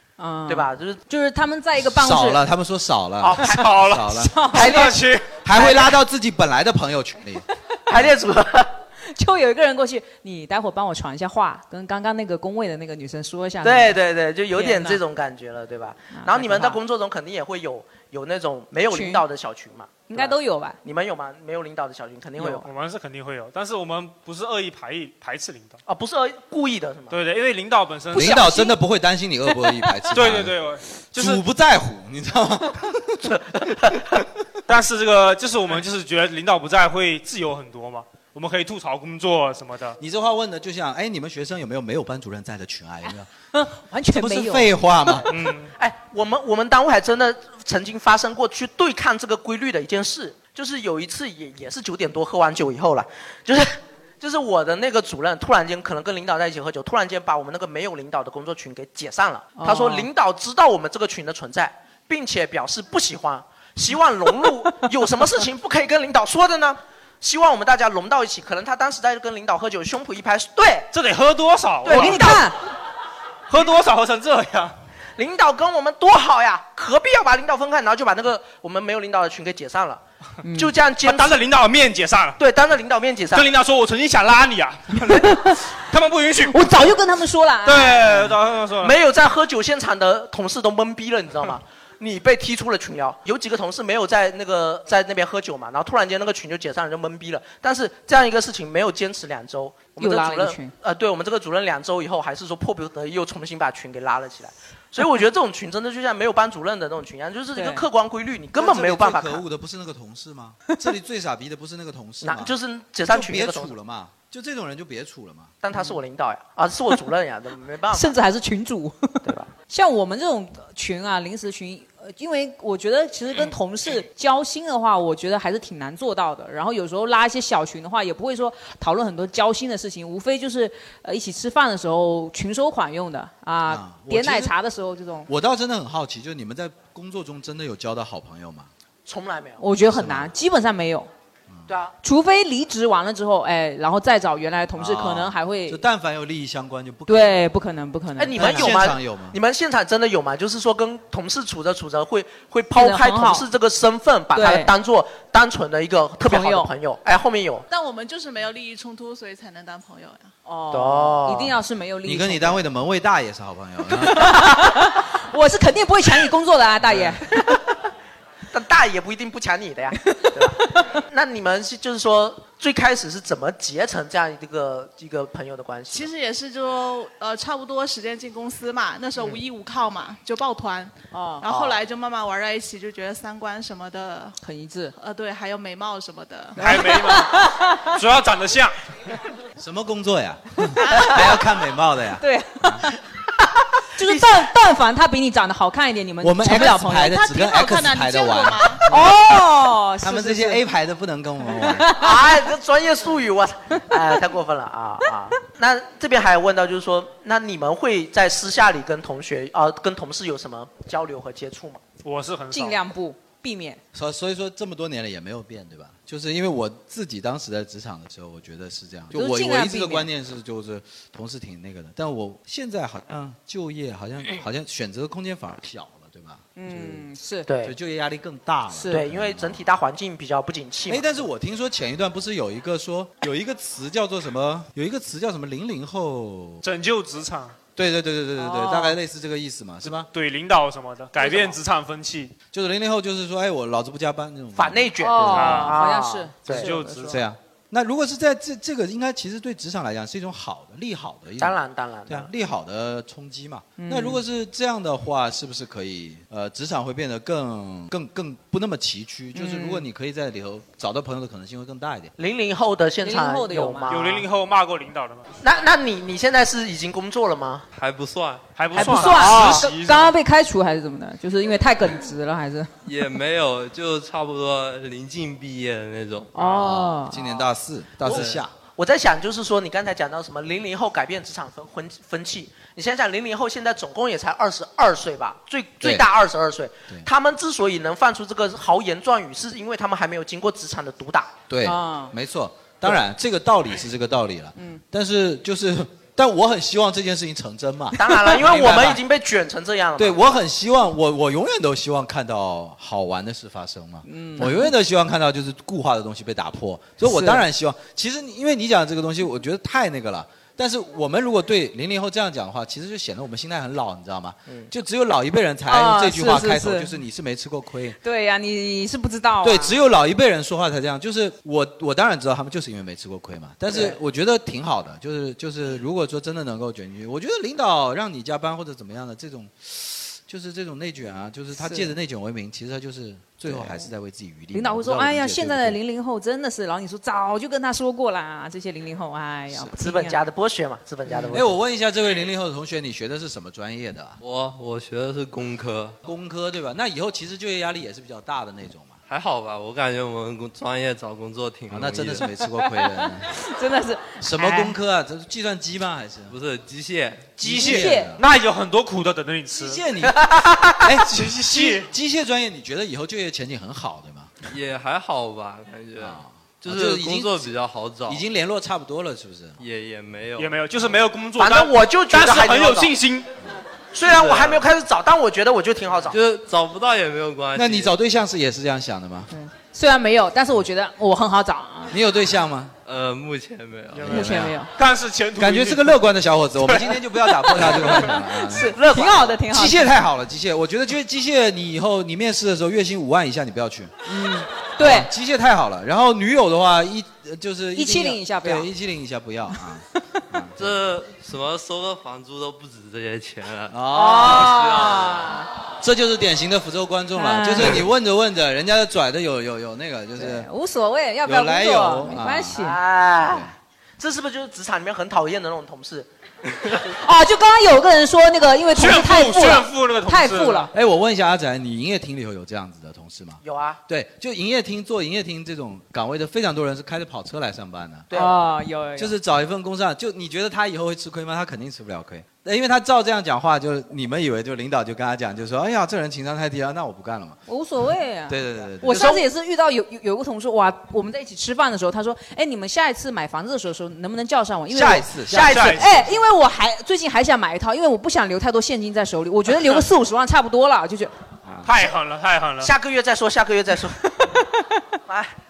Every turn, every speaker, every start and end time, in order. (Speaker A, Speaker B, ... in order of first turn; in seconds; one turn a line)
Speaker A: 0.2-2.4
Speaker B: 0.5-1.0
Speaker C: 1.8-4.5
Speaker B: 3.2-3.8
Speaker D: 3.4-5.4
Speaker A: 4.1-5.0
Speaker B: 4.5-4.9
Speaker C: 5.4-7.4
Speaker A: 5.5-6.0
Speaker B: 7.9-8.7
Speaker A: 9.1-14.0
Speaker B: 13.6-22.7
Speaker A: 14.5-15.0
Speaker A: 16.1-16.8
Speaker A: 18.9-19.2
Speaker A: 20.1-20.8
Speaker A: 22.4-22.6
Speaker D: 22.6-25.8
Speaker B: 25.9-27.2
Speaker D: 27.1-28.4
Speaker C: 28.1-30.6
Speaker A: 28.1-28.8
Speaker D: 30.1-31.4
Speaker C: 31.1-33.3
Speaker B: 33.2-34.1
Speaker D: 34.7-40.0
Speaker C: 40.0-43.3
Speaker A: 43.5-45.2
Speaker C: 44.1-45.3
Speaker D: 45.3-45.7
Speaker B: 45.8-70.9
Speaker A: 59.6-60.1
Speaker D: 70.9-72.5
Speaker B: 71.8-72.5
Speaker A: 71.9-72.6
Speaker D: 73.5-74.8
Speaker B: 75.2-80.0
Speaker A: 80.4-80.7
Speaker B: 80.6-81.4
Speaker D: 81.0-82.4
Speaker B: 82.4-83.5
Speaker D: 83.3-86.9
Speaker A: 85.1-85.5
Speaker A: 86.5-88.4
Speaker D: 87.7-88.9
Speaker B: 88.8-109.5
Speaker A: 100.0-100.7
Speaker A: 107.6-107.8
Speaker C: 108.6-112.5
Speaker B: 112.2-113.8
Speaker C: 113.1-115.6
Speaker B: 115.6-118.1
Speaker A: 117.9-135.3
Speaker B: 119.2-119.5
Speaker C: 133.7-134.6
Speaker C: 135.3-138.7
Speaker B: 139.1-139.6
Speaker A: 139.6-141.1
Speaker C: 139.9-140.3
Speaker B: 141.7-141.9
Speaker A: 142.0-145.8
Speaker C: 144.8-147.4
Speaker A: 147.1-148.8
Speaker B: 148.2-157.7
Speaker C: 148.3-149.4
Speaker A: 152.8-153.5
Speaker A: 154.3-154.7
Speaker A: 156.2-156.7
Speaker E: 157.7-160.3
Speaker A: 160.5-162.6
Speaker B: 160.7-161.5
Speaker C: 162.0-164.4
Speaker A: 163.9-167.6
Speaker B: 168.5-176.1
Speaker E: 175.9-184.4
Speaker A: 181.1-181.5
Speaker B: 181.5-181.8
Speaker A: 184.4-184.9
Speaker E: 184.9-186.6
Speaker D: 186.6-188.8
Speaker A: 186.6-187.9
Speaker C: 189.6-192.9
Speaker A: 190.8-191.2
Speaker E: 190.8-191.2
Speaker A: 192.2-192.9
Speaker A: 194.0-197.2
Speaker C: 196.2-199.4
Speaker E: 197.1-198.8
Speaker A: 198.9-200.7
Speaker C: 200.0-201.9
Speaker A: 201.5-202.3
Speaker B: 201.9-211.8
Speaker D: 212.0-212.8
Speaker A: 212.5-213.8
Speaker C: 213.9-227.1
Speaker A: 219.1-220.1
Speaker A: 226.6-227.5
Speaker B: 227.5-227.8
Speaker C: 227.6-229.6
Speaker A: 228.7-229.0
Speaker B: 228.9-231.3
Speaker C: 230.9-236.6
Speaker D: 236.6-237.6
Speaker C: 237.8-240.1
Speaker A: 238.4-239.0
Speaker D: 239.8-242.3
Speaker B: 241.2-241.6
Speaker C: 242.5-245.7
Speaker B: 244.6-246.7
Speaker A: 245.0-247.2
Speaker D: 245.3-245.8
Speaker D: 246.5-247.2
Speaker C: 247.0-251.6
Speaker B: 251.4-252.3
Speaker C: 252.1-262.1
Speaker A: 253.8-254.2
Speaker A: 259.4-259.9
Speaker B: 262.2-264.3
Speaker A: 263.0-263.9
Speaker D: 263.9-265.3
Speaker B: 265.4-267.6
Speaker F: 267.7-268.5
Speaker D: 268.6-270.1
Speaker A: 268.7-272.7
Speaker B: 268.8-269.7
Speaker F: 272.9-276.3
Speaker A: 276.4-277.2
Speaker C: 276.4-278.5
Speaker F: 278.1-278.4
Speaker B: 278.8-291.3
Speaker C: 291.5-299.0
Speaker A: 291.6-292.1
Speaker A: 294.6-294.8
Speaker B: 298.0-300.2
Speaker C: 300.0-318.0
Speaker A: 304.1-304.7
Speaker A: 307.0-307.4
Speaker A: 315.7-317.0
Speaker A: 318.0-319.8
Speaker C: 319.4-335.8
Speaker A: 331.6-331.9
Speaker A: 333.5-333.9
Speaker A: 334.5-340.2
Speaker B: 339.8-341.6
Speaker A: 341.1-341.5
Speaker C: 341.3-344.2
Speaker F: 344.2-346.0
Speaker C: 346.0-349.0
Speaker F: 349.1-352.3
Speaker C: 351.7-353.3
Speaker A: 352.8-354.8
Speaker C: 354.2-356.3
Speaker F: 356.3-357.4
Speaker C: 357.4-358.2
Speaker D: 357.4-359.8
Speaker A: 357.5-358.1
Speaker C: 359.5-360.3
Speaker B: 360.1-360.9
Speaker C: 360.8-364.3
Speaker D: 361.0-361.9
Speaker F: 364.5-368.2
Speaker C: 366.0-367.5
Speaker C: 368.1-369.6
Speaker F: 369.6-371.0
Speaker D: 370.4-373.3
Speaker B: 371.4-372.9
Speaker B: 373.9-376.2
Speaker F: 374.0-374.6
Speaker F: 376.1-377.9
Speaker C: 377.6-379.3
Speaker A: 379.3-382.0
Speaker C: 381.9-382.8
Speaker F: 382.9-384.4
Speaker D: 383.9-386.0
Speaker C: 384.0-384.6
Speaker A: 384.1-384.7
Speaker C: 385.4-394.0
Speaker D: 386.6-388.0
Speaker A: 387.5-389.9
Speaker A: 394.1-395.1
Speaker C: 394.8-400.6
Speaker A: 397.8-398.7
Speaker F: 400.6-405.3
Speaker C: 403.7-404.7
Speaker A: 403.9-405.5
Speaker C: 405.8-410.5
Speaker A: 407.2-407.9
Speaker A: 410.2-412.8
Speaker C: 411.2-412.6
Speaker B: 412.6-416.1
Speaker C: 413.2-413.5
Speaker A: 417.0-420.7
Speaker D: 418.7-420.7
Speaker C: 420.7-428.1
Speaker B: 423.4-423.8
Speaker B: 428.1-428.4
Speaker A: 428.1-429.1
Speaker C: 429.0-437.4
Speaker A: 437.5-451.1
Speaker C: 438.3-439.2
Speaker B: 438.9-439.2
Speaker C: 444.7-445.9
Speaker D: 445.3-446.1
Speaker B: 445.3-445.8
Speaker D: 451.6-452.7
Speaker B: 452.6-454.0
Speaker B: 455.1-455.4